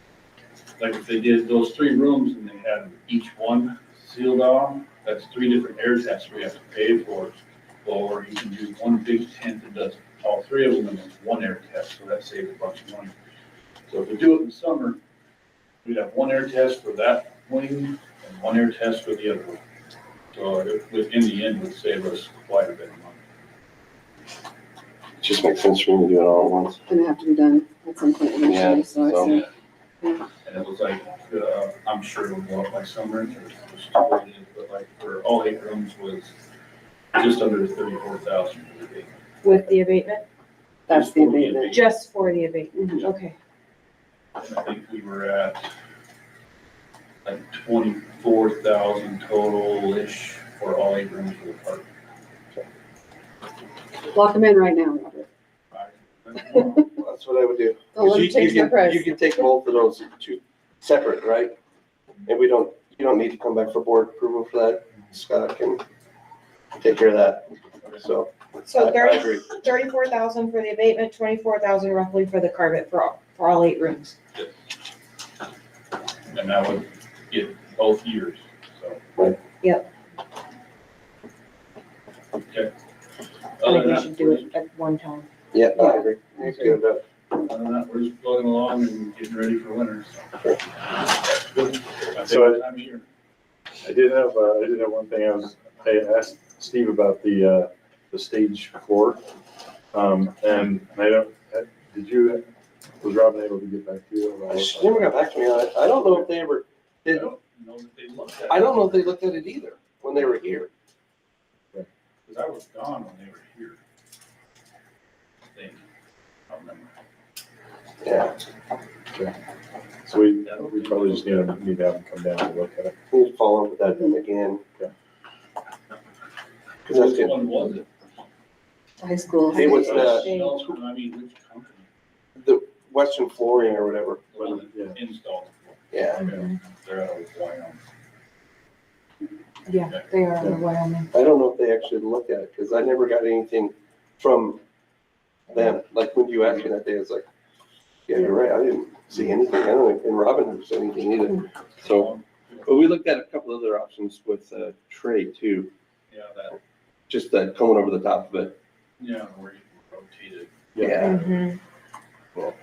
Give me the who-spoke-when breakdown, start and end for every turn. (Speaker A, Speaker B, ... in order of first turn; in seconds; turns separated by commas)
Speaker A: 0.8-13.1, Speaker A: 13.9-15.0, Speaker A: 15.8-19.6, Speaker A: 20.3-23.2, Speaker B: 25.2-26.8, Speaker C: 26.9-29.5, Speaker B: 28.4-29.3, Speaker A: 30.4-36.3, Speaker A: 37.1-39.1, Speaker D: 39.4-40.2, Speaker C: 40.9-41.8, Speaker A: 40.9-42.3, Speaker D: 41.7-43.4, Speaker C: 42.7-43.0, Speaker A: 44.4-45.7, Speaker A: 47.2-51.9, Speaker C: 54.1-55.3, Speaker A: 55.7-56.9, Speaker C: 56.5-56.8, Speaker B: 57.0-61.5, Speaker C: 57.9-59.1, Speaker B: 62.2-65.8, Speaker B: 66.8-69.5, Speaker D: 68.7-74.1, Speaker A: 76.3-79.3, Speaker D: 79.6-79.9, Speaker A: 82.5-82.7, Speaker A: 83.6-84.5, Speaker D: 83.6-85.3, Speaker B: 85.5-87.0, Speaker A: 87.3-90.2, Speaker A: 92.1-93.0, Speaker E: 92.2-92.6, Speaker E: 93.8-99.2, Speaker E: 99.9-102.4, Speaker E: 103.0-105.2, Speaker B: 104.5-107.3, Speaker A: 107.1-109.2, Speaker B: 108.5-110.7, Speaker A: 112.2-113.8, Speaker A: 115.5-115.8, Speaker A: 116.5-116.9, Speaker B: 118.0-118.4, Speaker E: 120.0-122.9, Speaker A: 120.4-121.5, Speaker B: 123.1-124.6, Speaker B: 126.8-127.4, Speaker A: 126.9-127.9, Speaker C: 129.0-129.8, Speaker B: 129.5-130.3, Speaker D: 129.5-130.6, Speaker A: 129.7-131.9, Speaker B: 132.4-134.2, Speaker A: 134.3-135.8, Speaker E: 134.4-135.0, Speaker B: 135.9-136.3, Speaker D: 136.1-136.6, Speaker A: 136.6-137.8, Speaker D: 139.7-141.1, Speaker B: 141.1-144.6, Speaker B: 145.5-147.2, Speaker B: 148.1-152.1, Speaker A: 151.8-153.0, Speaker B: 152.6-155.7, Speaker A: 156.1-156.6, Speaker B: 157.1-158.6, Speaker A: 159.0-160.8, Speaker E: 160.7-161.1, Speaker B: 160.8-161.2, Speaker D: 161.0-161.6